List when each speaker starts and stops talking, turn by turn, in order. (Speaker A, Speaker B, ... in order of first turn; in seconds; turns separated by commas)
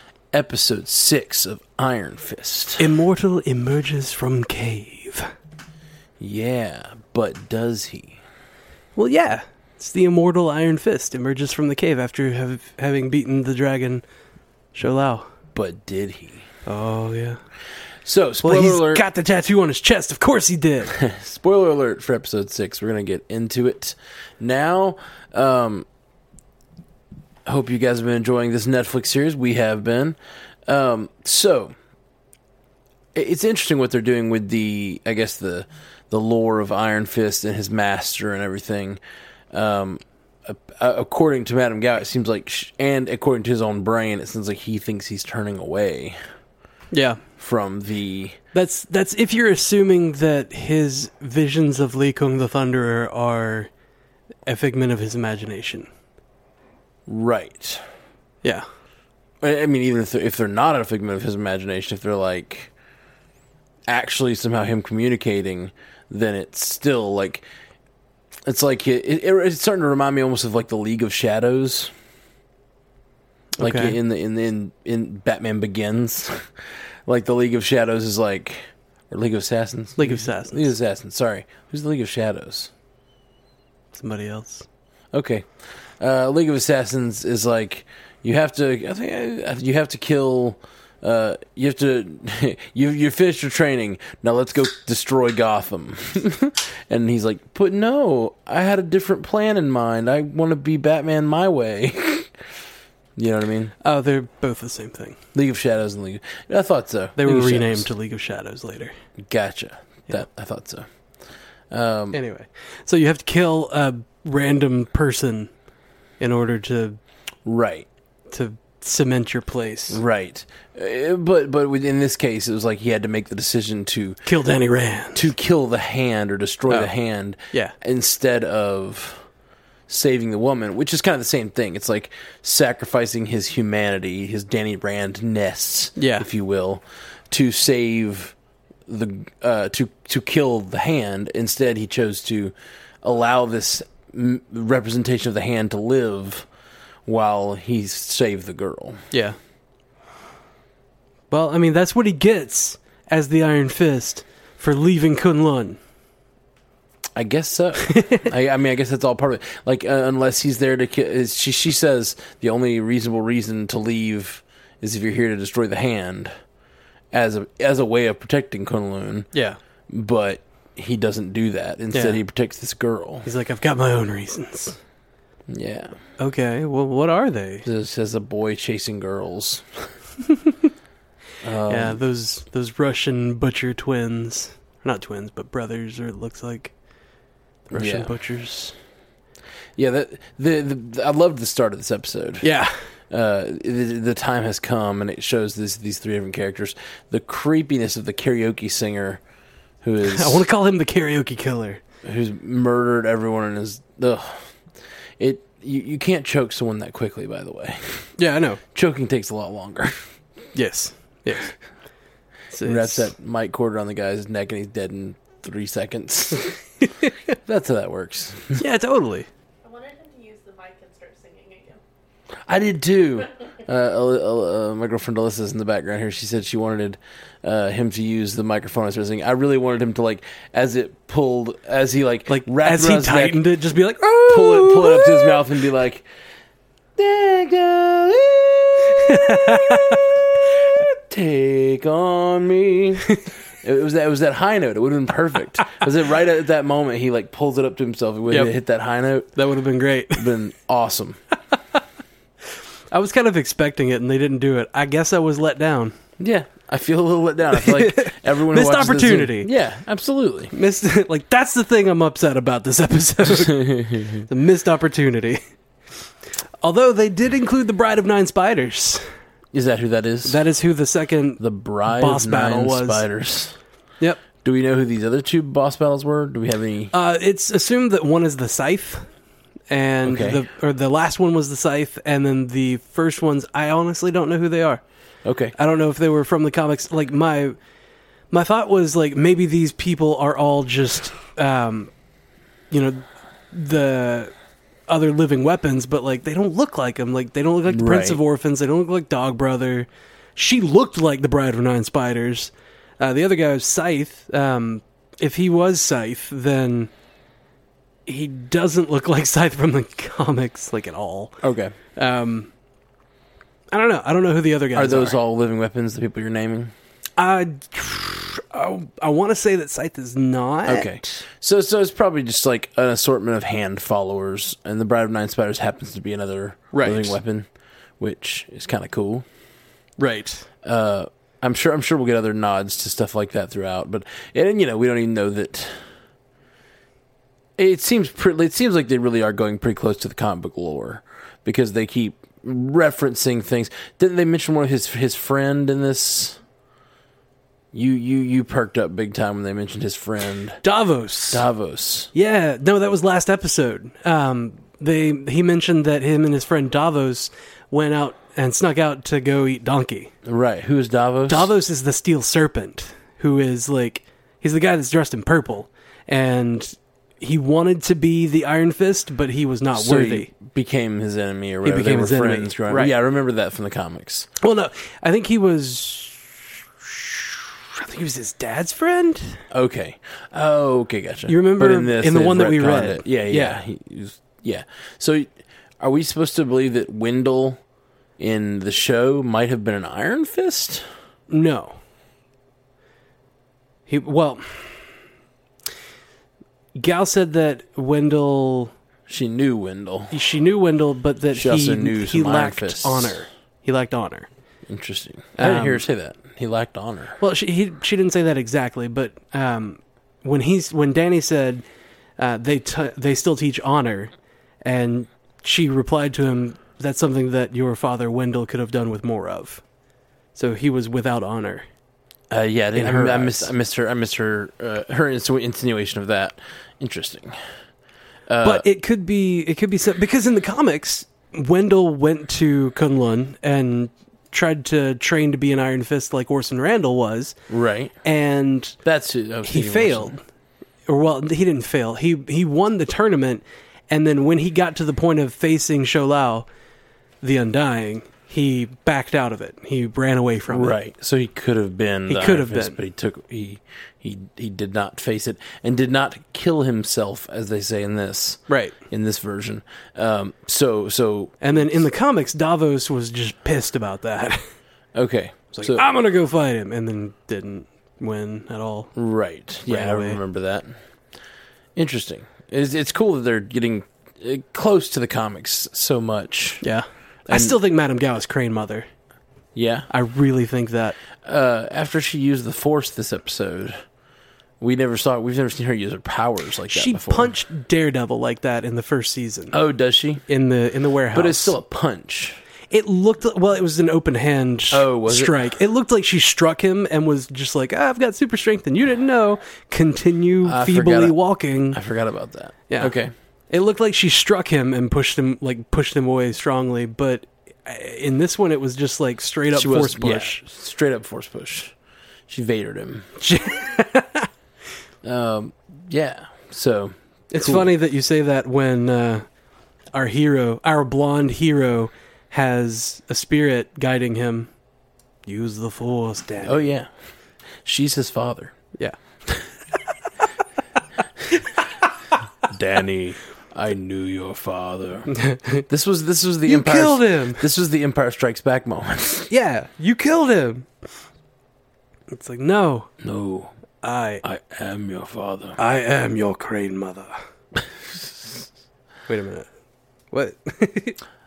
Speaker A: 0.3-2.9, Speaker B: 2.8-5.3, Speaker A: 6.2-8.2, Speaker B: 8.9-14.0, Speaker B: 14.7-15.2, Speaker A: 15.5-16.4, Speaker B: 16.6-17.4, Speaker A: 18.0-19.0, Speaker B: 18.4-21.0, Speaker A: 20.9-25.9, Speaker A: 27.4-31.7, Speaker A: 33.1-39.0, Speaker A: 39.5-46.2, Speaker B: 46.9-47.2, Speaker A: 47.4-48.4, Speaker B: 48.5-53.7, Speaker B: 54.5-55.9, Speaker A: 57.1-57.8, Speaker A: 59.4-62.7, Speaker A: 63.9-67.4, Speaker A: 68.5-71.9, Speaker B: 73.6-74.0, Speaker A: 73.6-76.5, Speaker A: 77.1-82.7, Speaker B: 80.0-80.7, Speaker B: 83.9-84.7, Speaker A: 85.1-85.5, Speaker A: 86.0-102.4, Speaker A: 103.2-103.7, Speaker B: 103.8-105.2, Speaker A: 105.3-107.9, Speaker B: 107.2-108.9, Speaker A: 109.2-110.8, Speaker A: 111.7-112.2, Speaker B: 112.1-115.5, Speaker B: 116.2-117.0, Speaker A: 117.4-117.9, Speaker B: 118.3-120.0, Speaker A: 119.9-124.2, Speaker B: 124.2-125.3, Speaker A: 125.1-129.2, Speaker A: 129.9-138.3, Speaker B: 135.9-136.3, Speaker A: 138.9-146.5, Speaker A: 147.1-149.0, Speaker B: 149.1-149.4, Speaker B: 151.3-155.8, Speaker A: 157.2-166.3, Speaker B: 157.9-158.2, Speaker A: 167.1-169.3, Speaker B: 169.3-169.6, Speaker A: 169.9-173.3, Speaker B: 171.9-172.2, Speaker B: 173.2-174.8, Speaker A: 175.5-176.0, Speaker B: 176.2-177.7, Speaker A: 177.6-179.9, Speaker A: 181.4-182.0, Speaker B: 181.7-186.7, Speaker B: 187.7-188.7, Speaker A: 187.7-188.1, Speaker A: 189.8-192.5, Speaker B: 192.4-192.8, Speaker A: 193.1-199.2, Speaker A: 199.8-200.4, Speaker B: 200.0-201.8, Speaker A: 202.0-204.5, Speaker A: 205.2-208.1, Speaker B: 208.2-208.6, Speaker A: 208.7-210.0, Speaker B: 210.5-211.5, Speaker B: 212.5-213.1, Speaker A: 212.6-216.5, Speaker A: 217.4-218.6, Speaker B: 218.5-219.3, Speaker C: 219.6-221.8, Speaker A: 222.5-233.4, Speaker B: 232.3-235.4, Speaker A: 234.3-236.1, Speaker A: 236.9-249.3, Speaker B: 239.1-240.0, Speaker B: 248.3-248.5, Speaker B: 249.3-250.3, Speaker A: 250.2-251.2, Speaker B: 252.9-255.9, Speaker A: 256.2-260.5, Speaker B: 257.5-259.5, Speaker B: 260.5-265.4, Speaker A: 263.3-264.3, Speaker B: 266.6-269.0, Speaker A: 269.5-270.4, Speaker B: 270.2-273.1, Speaker A: 271.4-273.6, Speaker A: 274.4-276.9, Speaker B: 276.9-279.1, Speaker B: 279.7-284.8, Speaker A: 280.0-280.4, Speaker A: 285.2-285.5, Speaker B: 285.6-287.6, Speaker B: 288.3-291.9, Speaker B: 292.7-294.3, Speaker B: 294.9-306.9, Speaker A: 297.6-298.2, Speaker B: 308.1-311.4, Speaker A: 311.4-311.7, Speaker B: 311.9-312.5, Speaker B: 313.7-315.2, Speaker A: 314.7-316.7, Speaker B: 317.2-321.1, Speaker A: 320.7-327.5, Speaker B: 326.7-327.2, Speaker A: 328.0-329.2, Speaker B: 330.0-330.5, Speaker A: 330.6-335.9, Speaker A: 337.6-346.4, Speaker A: 347.7-350.6, Speaker B: 350.6-351.4, Speaker A: 351.3-352.1, Speaker B: 352.1-360.1, Speaker A: 360.2-361.5, Speaker B: 361.3-370.3, Speaker A: 369.7-374.3, Speaker B: 371.6-372.9, Speaker B: 374.4-379.4, Speaker A: 379.5-387.6, Speaker B: 381.3-383.6, Speaker A: 388.2-390.8, Speaker B: 391.3-391.8, Speaker B: 393.9-395.0, Speaker B: 396.8-398.7, Speaker A: 399.1-400.1, Speaker B: 400.1-404.3, Speaker A: 401.3-403.2, Speaker A: 404.7-407.2, Speaker B: 405.4-405.8, Speaker B: 407.2-411.6, Speaker B: 412.2-414.1, Speaker B: 414.6-419.6, Speaker B: 420.3-421.6, Speaker A: 422.3-427.4, Speaker B: 422.7-423.5, Speaker A: 428.3-428.6, Speaker B: 428.4-437.3, Speaker A: 437.5-437.9, Speaker B: 438.0-438.8, Speaker A: 438.8-440.1, Speaker B: 439.4-440.2, Speaker B: 440.9-446.5, Speaker B: 447.2-450.8, Speaker A: 450.5-461.8, Speaker B: 452.1-452.8, Speaker B: 458.5-458.8, Speaker B: 461.4-464.4, Speaker A: 464.9-465.8, Speaker B: 465.5-468.9, Speaker A: 468.9-470.8, Speaker B: 469.7-470.2, Speaker A: 471.8-476.6, Speaker B: 476.6-478.9, Speaker A: 477.3-477.6, Speaker A: 479.5-479.9, Speaker B: 479.9-481.0, Speaker A: 481.2-483.8, Speaker A: 484.6-487.3, Speaker B: 486.7-489.5, Speaker A: 489.5-490.2, Speaker B: 490.3-491.6, Speaker A: 491.1-492.4, Speaker B: 492.7-501.8, Speaker A: 494.7-495.4, Speaker A: 500.4-501.2, Speaker A: 501.7-503.1, Speaker B: 502.7-502.9, Speaker B: 503.5-510.4, Speaker A: 509.5-511.7, Speaker A: 512.3-513.1, Speaker B: 513.2-514.3, Speaker A: 515.0-517.7, Speaker B: 517.3-519.2, Speaker B: 519.9-524.5, Speaker B: 525.2-526.7, Speaker A: 526.4-526.9, Speaker A: 527.6-528.5, Speaker B: 531.3-531.6, Speaker A: 532.5-535.1, Speaker B: 535.1-535.6, Speaker A: 535.7-539.3, Speaker B: 536.5-537.4, Speaker B: 539.3-540.7, Speaker B: 542.1-542.9, Speaker A: 543.0-543.5, Speaker B: 543.8-544.2, Speaker A: 544.2-545.6, Speaker B: 545.6-547.1, Speaker B: 549.1-549.5, Speaker B: 550.1-551.0